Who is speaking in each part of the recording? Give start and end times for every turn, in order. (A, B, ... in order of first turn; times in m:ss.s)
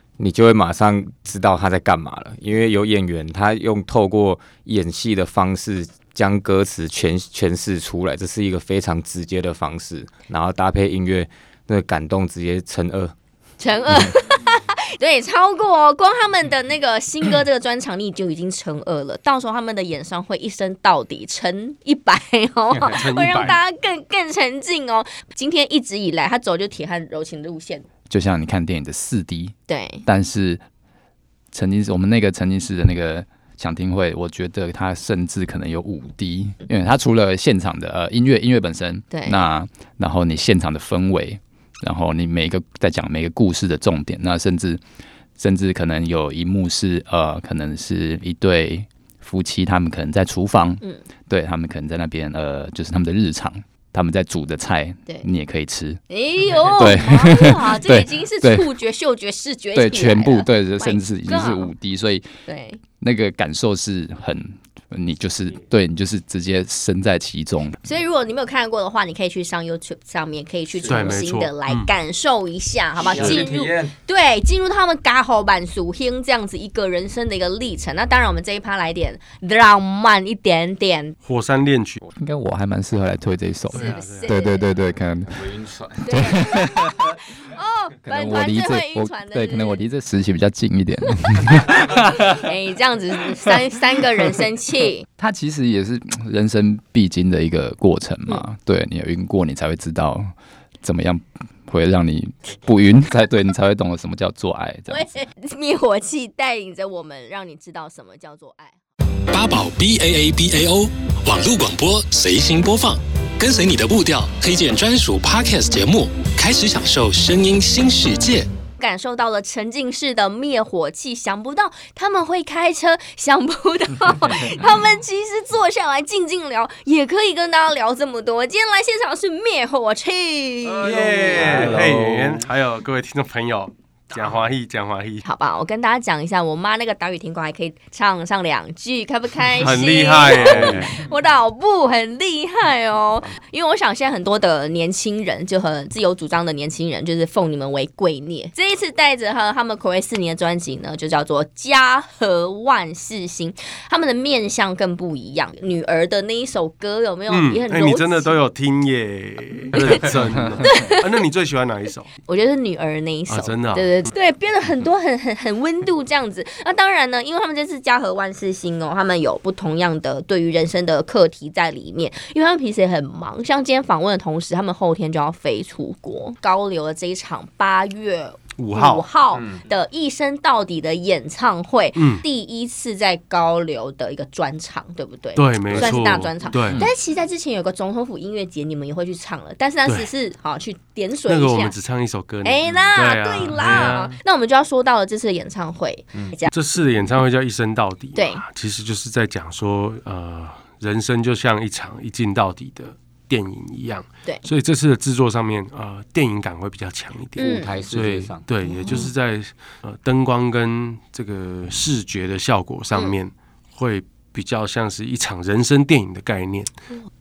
0:00.2-0:13.1 A
0:13.6-0:27.8 B
0:22.8-0:23.6 C
0:28.1-0:29.5 D
0:29.7-0:30.0 B
0:30.0-0:30.6 D
0:31.5-0:44.8 D
0:39.1-0:39.4 B
0:45.4-0:56.0 D
0:56.1-1:01.7 B
0:56.6-0:58.7 D
0:59.7-1:02.2 D
1:02.4-1:02.8 B
1:03.0-1:07.8 D
1:07.8-1:21.2 B
1:10.8-1:11.9 C
1:13.0-1:13.4 C
1:13.1-1:13.9 A
1:21.2-1:22.0 C
1:22.1-1:26.9 D
1:23.7-1:24.3 C
1:23.7-1:24.7 B
1:26.0-1:29.9 B
1:28.0-1:31.9 D
1:31.9-1:35.0 B
1:35.2-1:40.3 D
1:40.8-1:45.1 D
1:44.9-1:48.7 B
1:49.3-1:58.5 E
1:58.8-2:11.0 B
2:10.6-2:15.2 C
2:11.1-2:12.3 D
2:11.3-2:12.0 A
2:15.2-2:38.3 B
2:19.6-2:20.9 C
2:37.3-2:42.1 C
2:40.6-2:41.1 B
2:42.3-3:11.7 B
2:43.3-2:44.0 C
2:58.6-2:59.0 C
3:02.0-3:02.2 C
3:05.4-3:06.8 C
3:09.8-3:10.1 C
3:11.2-3:14.1 C
3:12.4-3:16.5 B
3:16.5-3:36.7 C
3:18.2-3:18.4 B
3:27.4-3:29.0 A
3:27.4-3:27.8 B
3:28.7-3:29.1 B